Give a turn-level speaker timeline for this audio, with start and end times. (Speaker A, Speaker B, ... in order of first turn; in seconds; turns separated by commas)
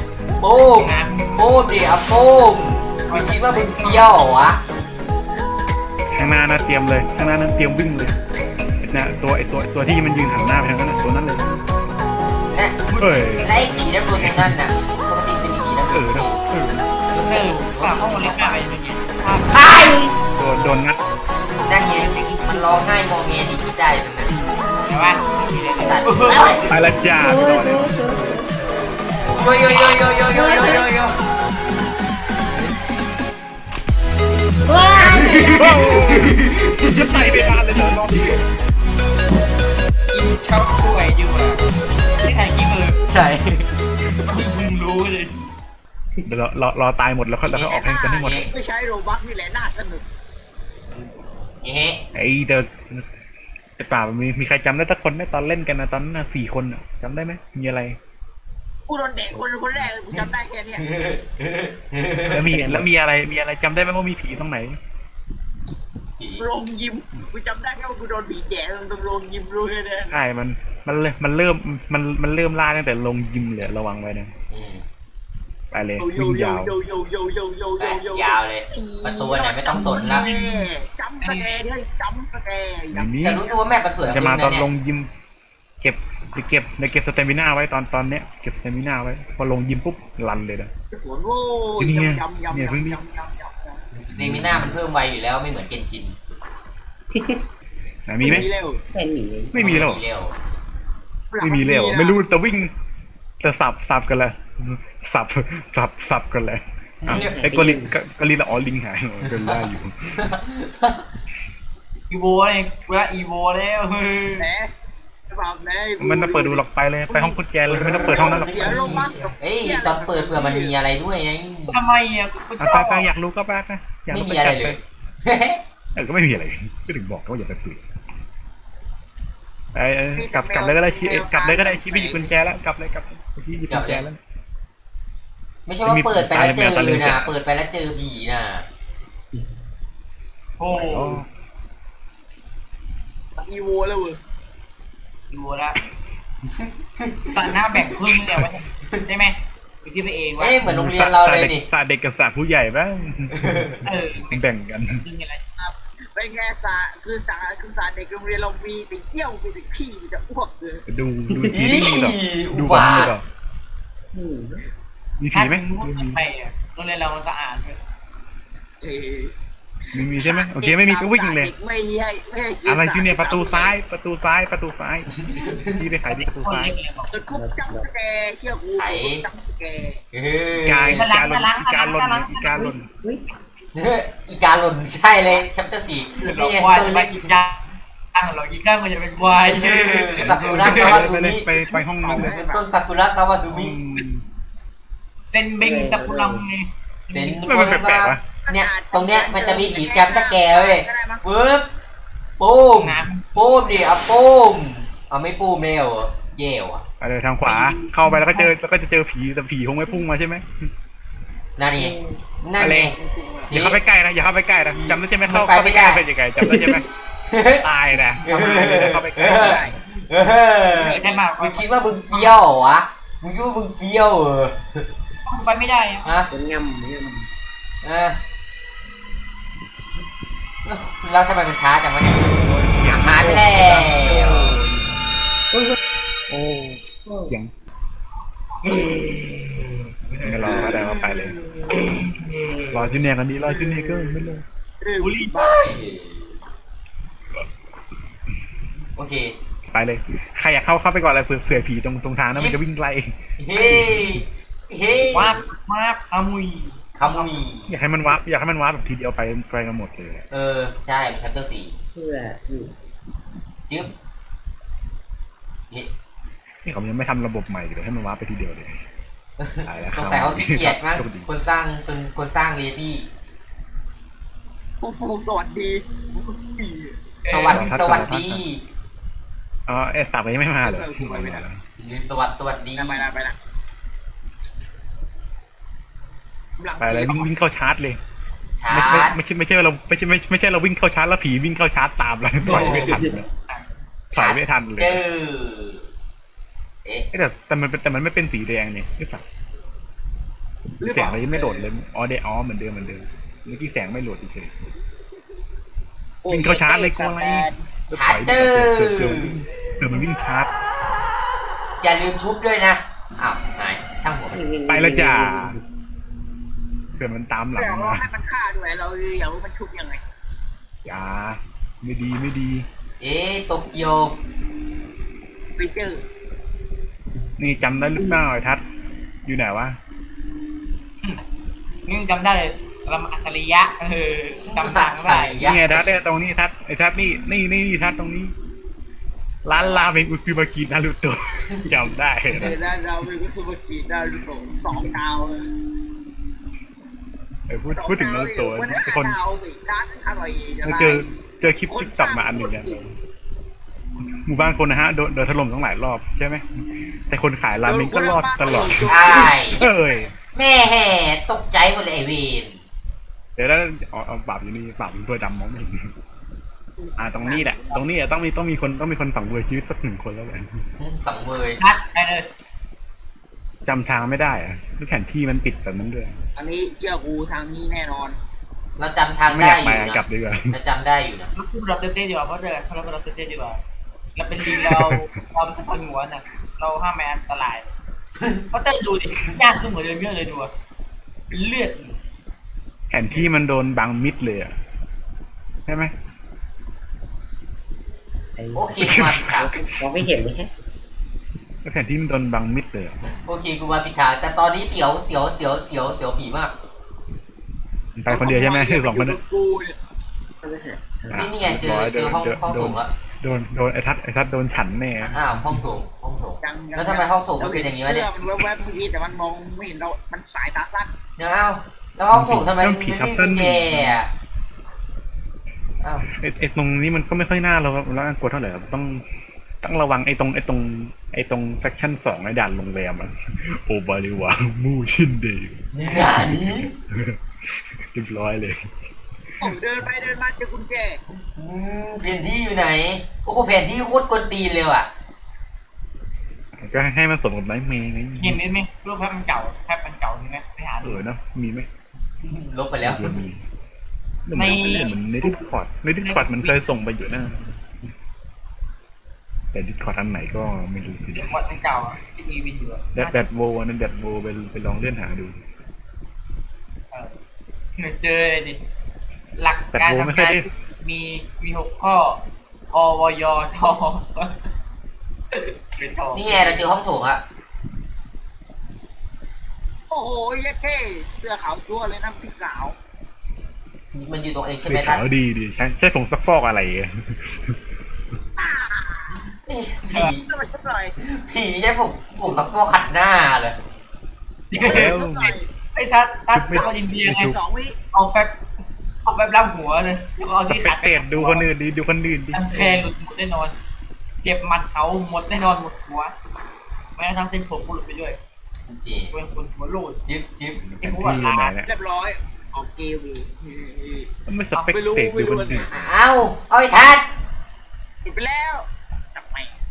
Speaker A: 0.4-4.6, Speaker B: 0.7-1.4, Speaker B: 3.1-4.1, Speaker C: 3.1-4.1, Speaker D: 6.1-8.1, Speaker D: 8.8-11.4, Speaker B: 12.9-13.2, Speaker D: 13.0-14.5, Speaker C: 13.4-13.9, Speaker A: 13.8-16.3, Speaker D: 15.9-16.9, Speaker A: 17.1-18.5, Speaker B: 17.2-19.6, Speaker C: 18.1-18.5, Speaker C: 19.5-20.0, Speaker D: 20.4-21.0, Speaker A: 21.7-22.1, Speaker B: 21.7-22.9, Speaker C: 22.5-23.1, Speaker A: 23.1-24.2, Speaker C: 23.8-24.3, Speaker B: 24.8-26.6, Speaker C: 25.8-26.7, Speaker D: 26.7-27.9, Speaker E: 27.2-28.5, Speaker C: 29.4-30.8, Speaker A: 29.6-31.1, Speaker E: 30.3-30.9, Speaker E: 34.7-35.9, Speaker C: 35.4-35.7, Speaker D: 35.5-36.3, Speaker D: 36.8-38.3, Speaker B: 40.1-41.6, Speaker B: 42.2-43.0, Speaker A: 43.1-43.7, Speaker B: 44.3-45.4, Speaker D: 46.2-48.5, Speaker A: 47.4-48.5, Speaker C: 47.8-50.0, Speaker A: 51.6-52.0, Speaker D: 52.1-53.0, Speaker D: 53.8-58.0, Speaker C: 58.9-60.9, Speaker A: 60.8-62.5, Speaker D: 62.3-64.8, Speaker E: 62.4-62.9, Speaker A: 66.2-66.5, Speaker C: 66.4-70.1, Speaker D: 70.1-74.3, Speaker A: 74.5-74.8, Speaker D: 75.7-76.7, Speaker C: 76.0-83.1, Speaker A: 77.8-80.3, Speaker B: 81.2-81.6, Speaker D: 82.9-83.4, Speaker A: 83.2-84.7, Speaker D: 84.0-85.1, Speaker D: 85.8-90.7, Speaker C: 90.9-93.8, Speaker D: 91.8-93.0, Speaker A: 93.9-96.2, Speaker D: 94.1-94.8, Speaker E: 97.1-97.4, Speaker D: 98.1-98.5, Speaker C: 98.2-98.8, Speaker E: 98.2-99.5, Speaker D: 99.5-100.0, Speaker A: 99.5-100.4, Speaker C: 101.3-102.2, Speaker D: 101.4-102.7, Speaker D: 103.4-110.2, Speaker A: 107.0-107.4, Speaker E: 107.1-107.9, Speaker A: 109.2-109.6, Speaker A: 110.2-111.0, Speaker B: 112.1-114.5, Speaker C: 114.4-114.7, Speaker C: 115.3-117.4, Speaker D: 116.0-119.3, Speaker A: 117.6-121.8, Speaker C: 118.0-120.8, Speaker B: 121.7-123.1, Speaker D: 122.6-124.8, Speaker A: 124.1-125.6, Speaker D: 125.9-127.8, Speaker D: 129.7-134.2, Speaker C: 130.1-132.3, Speaker A: 133.7-134.0, Speaker A: 135.7-138.7, Speaker D: 135.8-137.3, Speaker B: 140.6-141.2, Speaker D: 140.8-141.3, Speaker C: 143.4-144.2, Speaker B: 145.3-145.8, Speaker B: 147.3-150.6, Speaker A: 150.4-151.7, Speaker D: 150.6-155.0, Speaker B: 153.8-155.4, Speaker C: 155.6-160.8, Speaker D: 160.9-163.2, Speaker A: 161.5-163.1, Speaker E: 164.1-164.6, Speaker D: 165.2-166.2, Speaker B: 165.3-167.8, Speaker C: 168.8-169.3, Speaker D: 169.9-171.5, Speaker C: 169.9-173.8, Speaker D: 172.7-176.7, Speaker A: 175.2-175.8, Speaker B: 176.0-177.1, Speaker C: 177.1-180.0, Speaker E: 177.3-177.8, Speaker A: 178.8-179.2, Speaker A: 180.1-181.1, Speaker D: 180.6-182.9, Speaker B: 180.9-182.7, Speaker E: 182.5-183.2, Speaker A: 183.7-187.4, Speaker B: 186.2-191.1, Speaker A: 189.6-191.5, Speaker C: 189.6-192.7, Speaker D: 190.2-192.3, Speaker A: 192.2-193.7, Speaker D: 193.5-194.2, Speaker B: 195.3-197.6, Speaker E: 195.6-196.4, Speaker A: 197.1-201.7, Speaker D: 197.4-198.2, Speaker C: 198.4-201.3, Speaker A: 202.4-206.8, Speaker B: 202.7-203.3, Speaker D: 207.0-210.7, Speaker B: 207.4-208.5, Speaker A: 211.6-211.9, Speaker E: 211.8-212.2, Speaker A: 212.4-213.0, Speaker D: 212.6-212.9, Speaker C: 213.0-213.6, Speaker A: 213.5-213.8, Speaker D: 213.5-216.8, Speaker A: 214.7-216.0, Speaker A: 217.3-217.7, Speaker D: 217.6-219.8, Speaker A: 218.2-224.8, Speaker C: 219.2-219.8, Speaker B: 220.7-222.4, Speaker B: 225.3-226.1, Speaker E: 226.3-227.3, Speaker A: 227.8-228.2, Speaker A: 230.6-234.6, Speaker D: 232.4-234.2, Speaker D: 236.3-237.5, Speaker E: 237.1-237.3, Speaker D: 240.2-241.3, Speaker A: 240.4-241.8, Speaker D: 242.7-244.4, Speaker C: 244.8-245.8, Speaker B: 245.0-245.7, Speaker A: 245.7-246.3, Speaker A: 248.9-249.3, Speaker D: 249.7-254.2, Speaker A: 253.4-255.3, Speaker B: 255.1-257.3, Speaker A: 257.0-257.7, Speaker D: 257.7-260.2, Speaker A: 260.3-261.7, Speaker E: 261.9-262.7, Speaker A: 263.7-263.9, Speaker D: 266.6-268.7, Speaker A: 269.4-273.1, Speaker D: 269.6-271.3, Speaker C: 274.8-277.3, Speaker B: 277.2-277.6, Speaker A: 277.3-278.6, Speaker D: 277.5-278.4, Speaker D: 279.7-281.6, Speaker C: 280.6-281.4, Speaker A: 281.8-283.1, Speaker C: 282.8-283.4, Speaker C: 286.6-287.3, Speaker D: 286.8-288.0, Speaker A: 288.6-289.2, Speaker D: 288.7-293.3, Speaker A: 292.4-293.0, Speaker C: 292.5-292.9, Speaker B: 293.5-293.7, Speaker D: 294.1-295.0, Speaker A: 294.1-295.9, Speaker D: 297.1-299.2, Speaker C: 300.8-301.7, Speaker D: 300.8-304.5, Speaker C: 306.2-307.5, Speaker D: 306.3-310.5, Speaker A: 307.9-309.4, Speaker A: 311.8-314.4, Speaker E: 314.3-315.6, Speaker D: 314.7-315.6, Speaker D: 316.9-318.1, Speaker C: 317.5-320.0, Speaker D: 320.8-322.6, Speaker A: 323.0-324.1, Speaker C: 325.6-326.0, Speaker D: 327.4-328.6, Speaker D: 329.2-329.8, Speaker B: 331.9-335.5, Speaker A: 334.7-335.9, Speaker D: 335.4-338.3, Speaker D: 339.4-342.6, Speaker C: 339.5-339.9, Speaker C: 342.3-345.5, Speaker D: 347.5-349.2, Speaker C: 347.7-351.1, Speaker D: 350.6-352.9, Speaker C: 351.7-352.8, Speaker D: 354.2-356.4, Speaker D: 357.1-360.1, Speaker C: 357.6-360.1, Speaker A: 358.9-359.7, Speaker A: 360.3-362.6, Speaker D: 363.4-365.9, Speaker D: 367.0-370.6, Speaker C: 367.1-367.8, Speaker A: 370.8-371.6, Speaker B: 371.6-372.3, Speaker D: 373.6-376.2, Speaker C: 376.4-378.2, Speaker A: 378.8-381.3, Speaker D: 379.3-380.6, Speaker B: 381.4-383.6, Speaker B: 384.1-387.7, Speaker B: 388.5-390.5, Speaker B: 391.3-392.0, Speaker D: 392.9-394.5, Speaker D: 395.7-395.9, Speaker E: 398.4-400.5, Speaker A: 398.6-399.6, Speaker D: 398.8-399.5, Speaker D: 401.6-403.0, Speaker A: 403.1-406.5, Speaker D: 407.9-409.2, Speaker C: 408.1-409.8, Speaker E: 410.4-411.3, Speaker D: 411.1-415.6, Speaker A: 411.1-412.9, Speaker A: 415.0-418.1, Speaker C: 416.4-420.9, Speaker A: 421.1-424.1, Speaker D: 422.1-424.0, Speaker A: 425.8-426.1, Speaker D: 426.1-429.0, Speaker D: 429.6-435.6, Speaker A: 435.7-436.7, Speaker D: 436.9-438.7, Speaker C: 439.4-441.0, Speaker A: 441.3-444.9, Speaker D: 446.6-448.4, Speaker B: 448.2-451.0, Speaker D: 450.8-451.7, Speaker A: 452.2-453.1, Speaker D: 452.8-453.4, Speaker D: 454.2-457.4, Speaker B: 454.3-455.4, Speaker B: 456.0-456.6, Speaker D: 459.5-461.4, Speaker B: 461.1-463.2, Speaker D: 462.9-465.4, Speaker B: 466.9-467.2, Speaker B: 467.8-468.6, Speaker B: 469.3-474.4, Speaker D: 469.7-470.5, Speaker B: 475.3-476.7, Speaker A: 476.1-477.2, Speaker C: 479.9-482.8, Speaker A: 483.9-485.0, Speaker D: 484.6-487.6, Speaker C: 488.4-489.1, Speaker A: 489.5-490.3, Speaker C: 489.8-490.9, Speaker A: 491.0-493.5, Speaker B: 494.5-495.0, Speaker C: 494.5-495.5, Speaker A: 494.6-494.9, Speaker D: 494.6-495.4, Speaker B: 495.7-497.3, Speaker D: 496.3-497.4, Speaker C: 496.5-497.8, Speaker B: 497.9-498.4, Speaker B: 499.0-501.5, Speaker D: 500.5-502.9, Speaker B: 502.3-503.5, Speaker B: 504.2-506.1, Speaker B: 506.9-508.2, Speaker A: 508.7-509.1, Speaker B: 509.1-510.0, Speaker A: 510.0-510.6, Speaker D: 510.5-511.7, Speaker B: 510.8-511.5, Speaker C: 511.6-514.1, Speaker D: 514.3-515.7, Speaker C: 514.7-515.8, Speaker A: 515.7-517.0, Speaker C: 518.0-519.6